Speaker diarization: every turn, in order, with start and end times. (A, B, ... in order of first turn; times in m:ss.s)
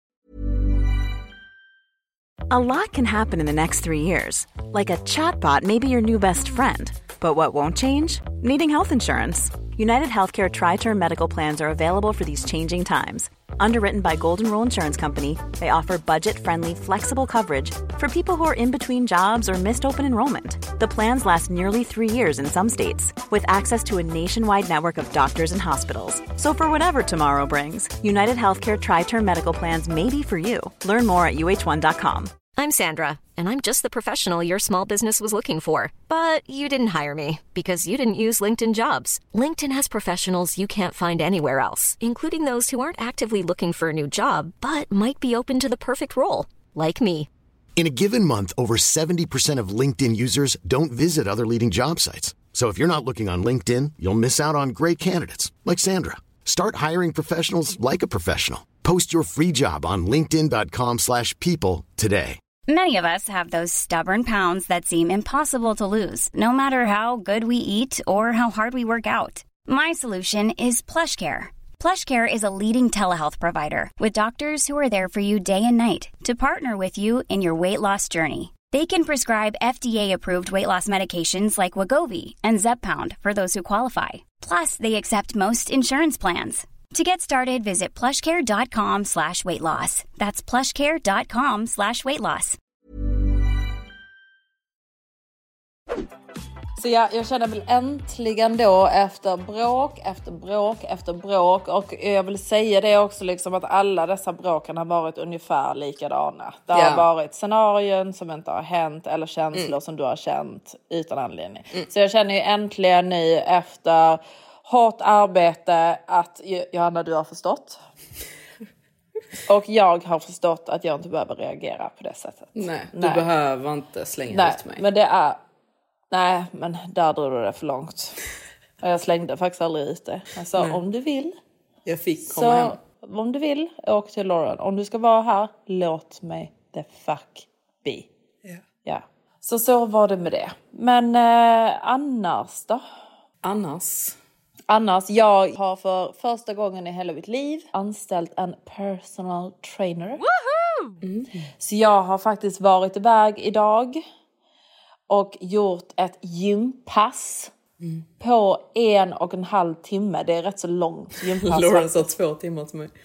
0:02.5-0:32.4 A
0:32.5-0:47.3 B
0:47.8-1:02.4 C
1:02.7-1:32.6 D
1:36.8-1:57.8 E
1:46.7-1:47.0 F
1:59.5-2:03.2 E
2:02.5-2:04.8 F
2:04.3-2:05.4 E
2:06.1-2:08.2 E
2:08.8-2:11.4 E
2:11.8-2:12.8 F
2:12.2-2:18.1 E
2:18.8-2:22.8 E
2:23.4-2:24.2 F
2:24.7-2:30.2 E
2:31.0-2:31.4 F
2:31.6-2:34.0 E
2:35.1-2:37.5 E
2:38.2-2:42.1 E
2:41.2-2:42.9 F